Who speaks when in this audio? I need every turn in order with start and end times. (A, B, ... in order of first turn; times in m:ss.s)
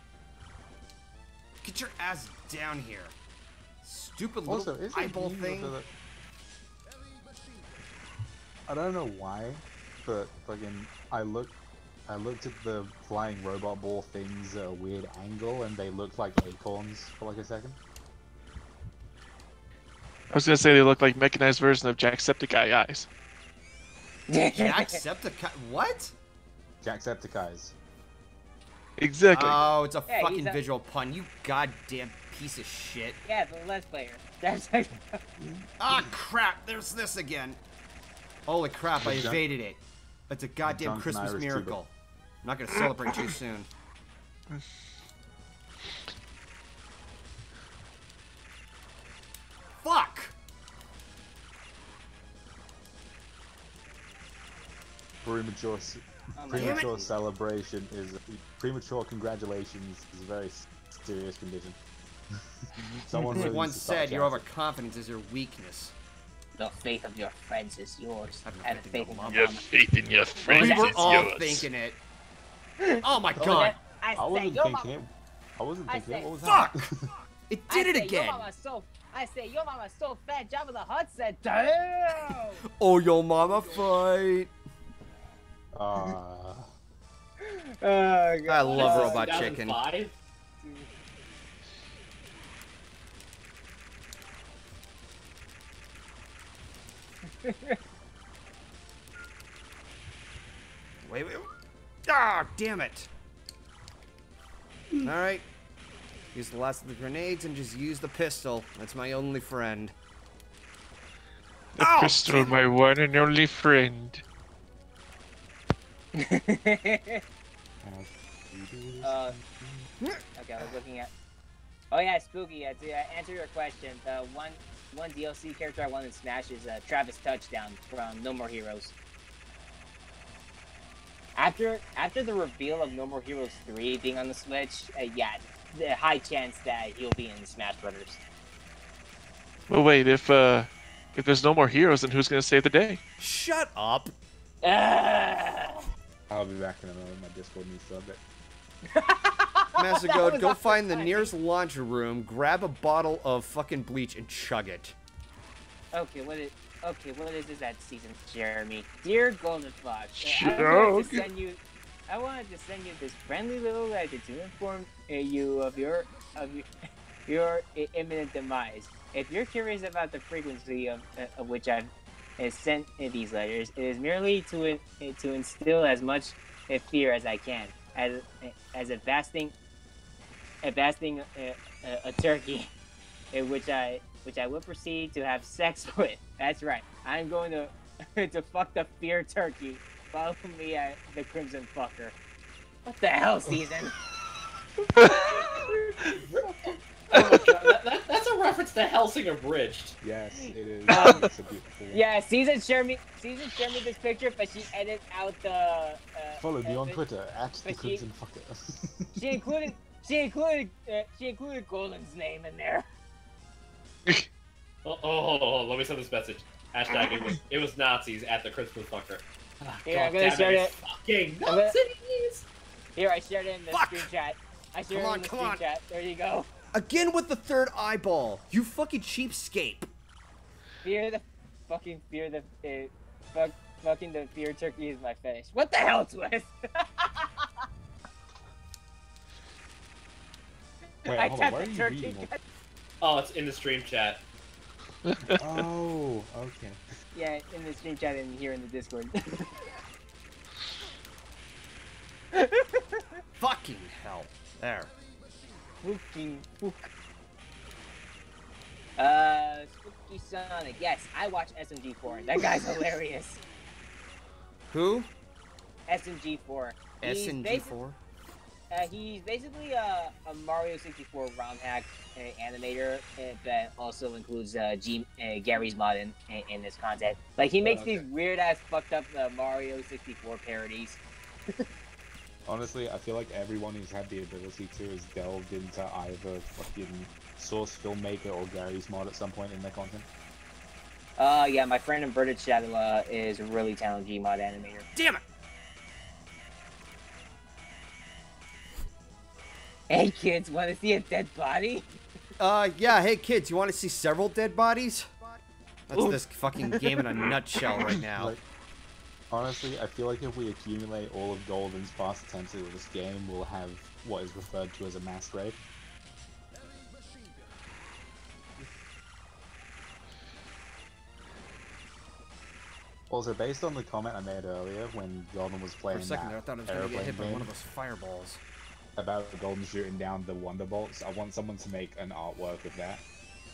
0:01.6-0:03.2 A
0:03.8-0:05.8 A
0:04.4-0:05.9 B
0:08.7-0:11.5 B
0:12.1-0:17.8 B
0:20.3-0:23.1 C
0:24.3-0:25.0 D
0:24.5-0:26.1 A
0:26.8-0:27.7 B
0:29.0-0:29.7 C
0:29.3-0:33.2 A
0:30.1-0:30.6 D
0:33.2-0:35.2 D
0:35.4-0:36.2 B
0:35.8-0:37.6 A
0:38.5-0:41.9 A
0:39.0-0:39.4 B
0:40.6-0:41.8 B
0:42.4-0:43.7 A
0:49.8-0:50.3 A
0:55.2-1:01.8 B
0:56.4-0:57.1 D
0:56.5-0:56.9 A
1:02.8-1:04.4 B
1:03.4-1:05.9 A
1:06.6-1:09.7 D
1:08.4-1:09.5 A
1:09.3-1:11.7 C
1:10.5-1:12.0 A
1:12.8-1:14.9 D
1:13.0-1:13.8 A
1:14.1-1:16.9 B
1:15.9-1:16.3 D
1:16.4-1:16.9 A
1:17.5-1:18.5 A
1:17.7-1:22.6 D
1:22.8-1:24.5 A
1:23.5-1:23.8 D
1:25.7-1:26.6 B
1:27.4-1:29.5 D
1:28.5-1:29.8 A
1:28.7-1:30.1 E
1:30.6-1:30.9 D
1:37.4-1:37.8 D
1:41.0-1:41.5 A
1:42.1-1:43.1 A
1:45.0-1:45.4 A
1:46.3-1:49.9 A
1:51.8-1:54.2 C
1:51.8-1:52.6 A
1:56.2-1:57.2 D
1:57.8-1:59.9 B
1:59.0-1:59.3 D
2:00.0-2:00.7 A
2:00.3-2:01.1 D
2:01.9-2:08.9 D
2:11.4-2:18.2 D
2:19.7-2:23.0 C
2:23.2-2:24.1 A
2:24.6-2:25.8 D
2:26.3-2:28.2 B
2:29.0-2:31.3 D
2:29.8-2:34.9 A
2:35.9-2:41.6 D
2:40.2-2:41.3 C
2:42.1-2:46.6 D
2:47.2-2:59.5 D
3:00.6-3:02.7 D
3:03.3-3:12.1 D
3:12.8-3:14.0 D
3:15.0-3:15.6 D
3:16.2-3:16.7 B
3:17.1-3:20.0 E
3:20.0-3:22.1 B
3:20.3-3:21.3 D
3:21.9-3:27.0 D
3:26.4-3:29.5 B
3:27.6-3:28.0 D
3:29.2-3:32.8 D
3:34.8-3:42.4 E
3:39.8-3:40.7 D
3:41.4-3:41.8 D
3:43.0-3:46.5 D
3:43.7-3:44.1 A
3:44.9-3:45.6 A
3:46.7-3:49.9 A
3:50.8-3:57.6 D
4:01.0-4:02.3 B
4:01.1-4:02.4 D
4:03.0-4:04.2 E
4:05.0-4:05.6 C
4:05.3-4:06.8 B
4:07.1-4:09.7 D
4:12.3-4:13.0 D
4:13.4-4:14.9 A
4:15.8-4:16.9 D
4:19.0-4:23.4 D
4:24.7-4:25.1 A
4:25.9-4:27.7 D
4:27.0-4:28.0 A
4:28.7-4:41.0 D
4:37.6-4:38.0 E
4:42.4-4:50.1 B
4:51.2-4:54.8 D
4:54.9-4:55.2 A
4:59.9-5:01.9 D
5:02.4-5:05.1 A
5:05.9-5:08.3 A
5:08.1-5:08.4 B
5:09.3-5:15.6 B
5:23.1-5:27.5 B
5:25.9-5:28.4 A
5:29.0-5:33.0 B